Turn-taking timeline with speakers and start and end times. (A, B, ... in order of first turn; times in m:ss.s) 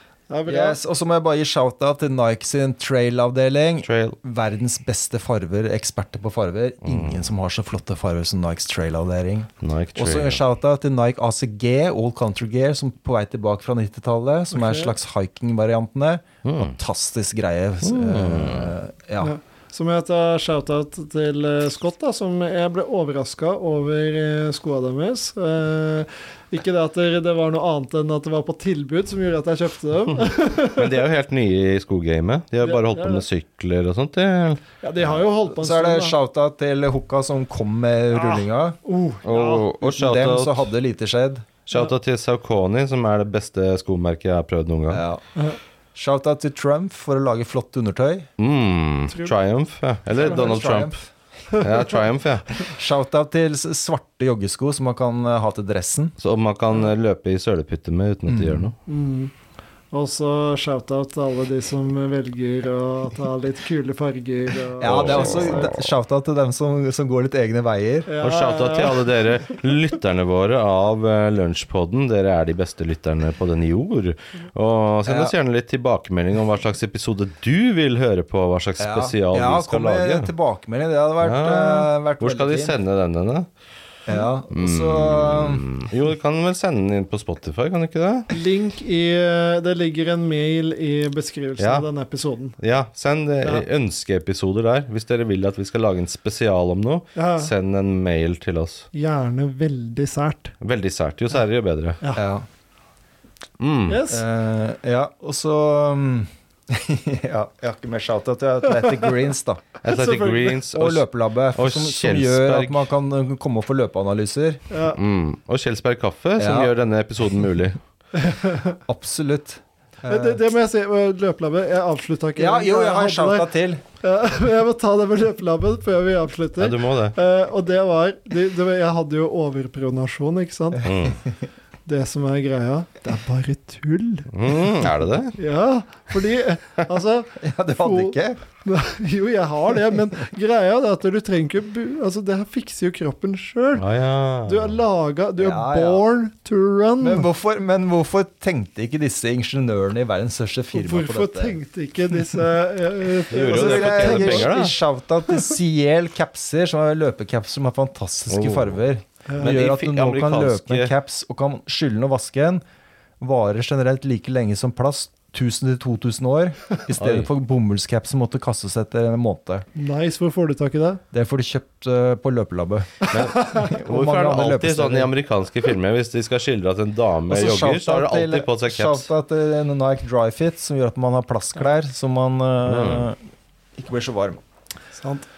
0:00.3-0:00.8 A
0:00.4-0:19.3 B
0:03.8-0:04.2 C
0:06.8-0:07.3 C
0:09.6-0:10.4 C
0:14.5-0:14.9 A
0:16.4-0:16.7 C
0:17.8-0:18.8 C
0:19.2-0:31.0 A
0:30.8-0:34.6 C
0:32.6-0:33.2 A
0:34.8-0:36.2 A
0:35.0-0:38.8 B
0:38.1-0:39.7 A
0:39.2-0:40.7 C
0:39.8-0:41.5 B
0:41.7-0:45.0 C
0:44.9-0:45.2 B
0:45.9-0:48.3 B
0:48.4-0:51.0 C
0:49.1-0:49.4 A
0:50.1-0:51.1 B
0:51.5-0:52.5 C
0:52.5-0:56.1 B
0:56.2-0:58.8 C
0:58.3-0:58.7 B
0:58.9-0:59.3 A
0:59.9-1:05.7 A
1:04.8-1:08.1 B
1:04.8-1:05.9 C
1:08.1-1:09.2 A
1:08.2-1:20.3 C
1:15.0-1:15.3 B
1:18.8-1:22.8 B
1:21.2-1:23.5 C
1:24.1-1:25.7 B
1:24.5-1:28.3 C
1:28.3-1:32.6 A
1:31.6-1:31.9 C
1:32.6-1:38.9 C
1:37.1-1:37.5 A
1:38.9-1:40.5 A
1:40.6-1:42.0 C
1:42.1-1:42.4 B
1:43.6-1:44.0 C
1:43.9-1:44.2 A
1:44.1-1:49.8 B
1:49.8-1:52.9 C
1:49.9-1:50.6 A
1:50.7-1:54.6 B
1:54.7-1:55.0 A
1:54.9-1:57.8 C
1:56.4-1:56.7 B
1:58.1-1:58.8 A
1:58.9-2:00.4 B
2:00.1-2:10.8 A
2:02.4-2:03.8 B
2:06.6-2:07.1 C
2:10.8-2:11.2 B
2:10.8-2:11.2 C
2:11.9-2:14.3 A
2:14.3-2:15.4 C
2:15.4-2:23.9 A
2:17.4-2:18.4 B
2:23.8-2:24.8 C
2:24.4-2:27.3 A
2:25.4-2:26.0 B
2:27.0-2:31.6 B
2:30.7-2:34.6 A
2:33.3-2:34.8 C
2:33.3-2:42.6 B
2:38.3-2:38.8 C
2:39.3-2:39.6 A
2:39.4-2:40.9 C
2:43.2-2:49.6 B
2:47.0-2:47.3 C
2:49.7-2:51.0 A
2:51.1-2:55.1 B
2:53.1-2:59.1 C
2:53.1-2:53.7 A
2:57.3-3:03.2 B
3:02.7-3:03.1 C
3:03.8-3:04.4 B
3:04.9-3:05.3 A